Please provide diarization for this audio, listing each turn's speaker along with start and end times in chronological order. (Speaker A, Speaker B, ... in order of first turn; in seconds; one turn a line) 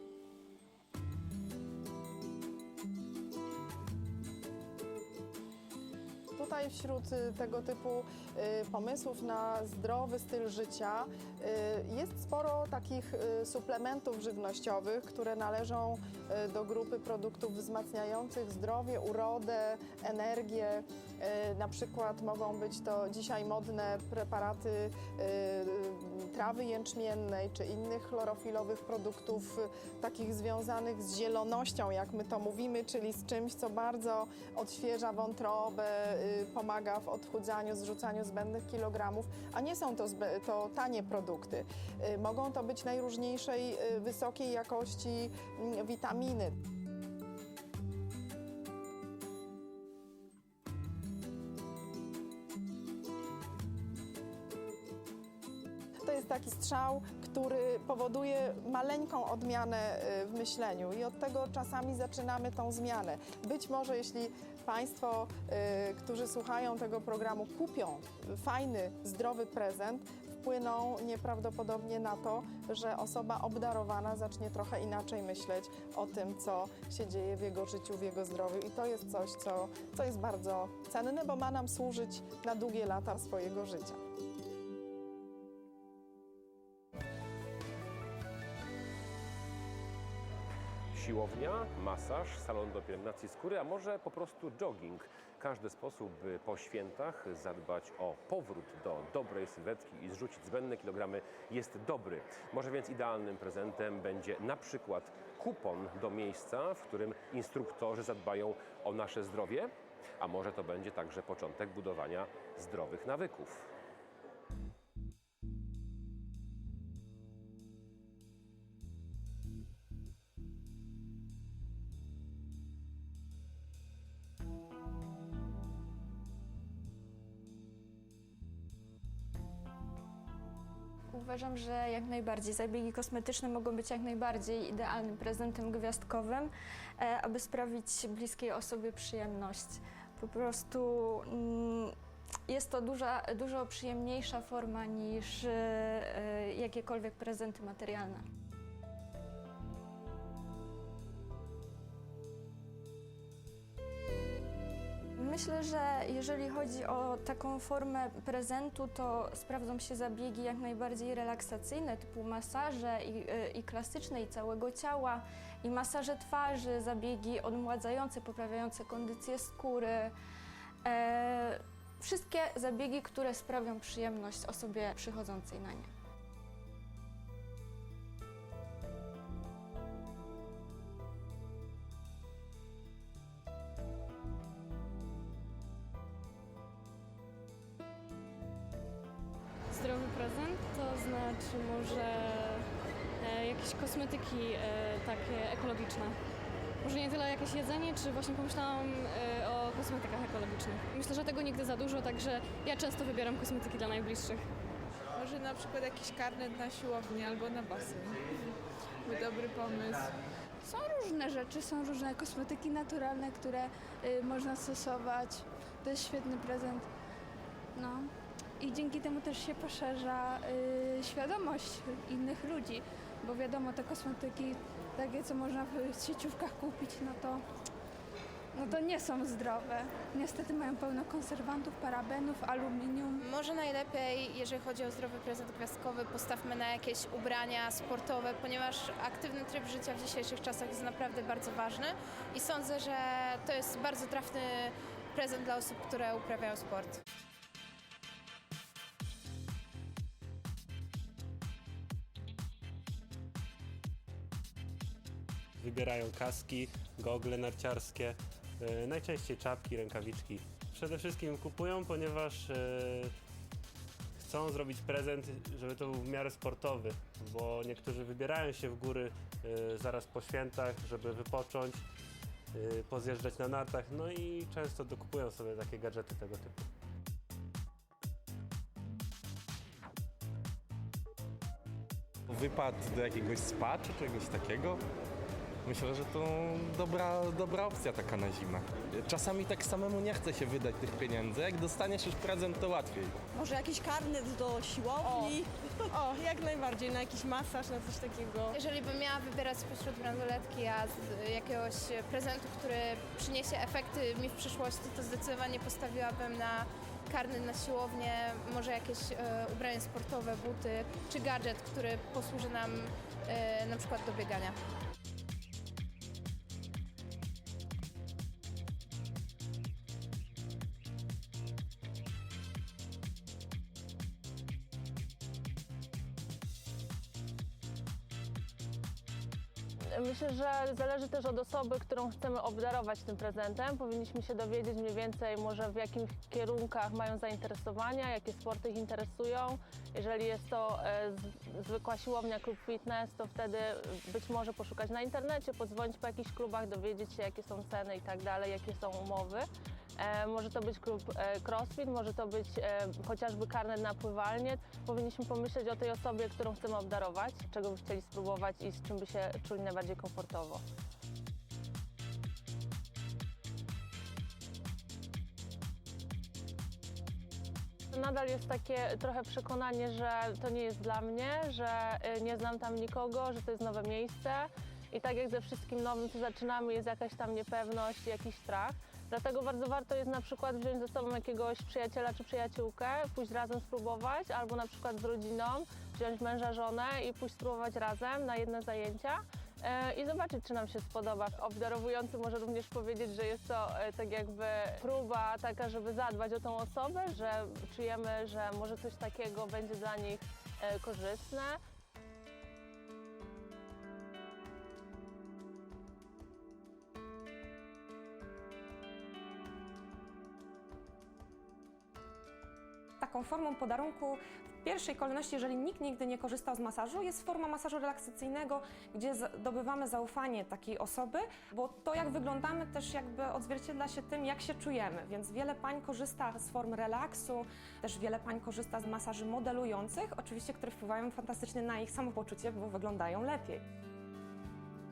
Speaker A: 6.4-46.5
Speaker A: 56.0-84.0
Speaker B: 90.9-113.7
Speaker C: 131.1-141.9
Speaker C: 142.5-148.2
Speaker C: 155.2-170.1
Speaker C: 170.8-175.9
Speaker D: 189.7-192.7
Speaker D: 193.2-196.2
Speaker D: 196.8-204.4
Speaker E: 205.2-208.3
Speaker F: 205.2-206.7
Speaker E: 209.1-210.1
Speaker G: 210.7-216.9
Speaker G: 217.8-218.1
Speaker G: 218.6-227.4
Speaker G: 228.6-233.2
Speaker H: 233.2-247.0
Speaker I: 255.6-263.1
Speaker I: 264.2-271.8
Speaker I: 272.5-276.6
Speaker J: 282.3-284.8
Speaker J: 285.6-293.1
Speaker F: 295.0-295.4
Speaker E: 295.0-295.3
Speaker F: 296.1-298.6
Speaker H: 298.6-314.6
Speaker K: 329.9-360.6
Speaker K: 367.9-401.6
Speaker L: 413.0-433.6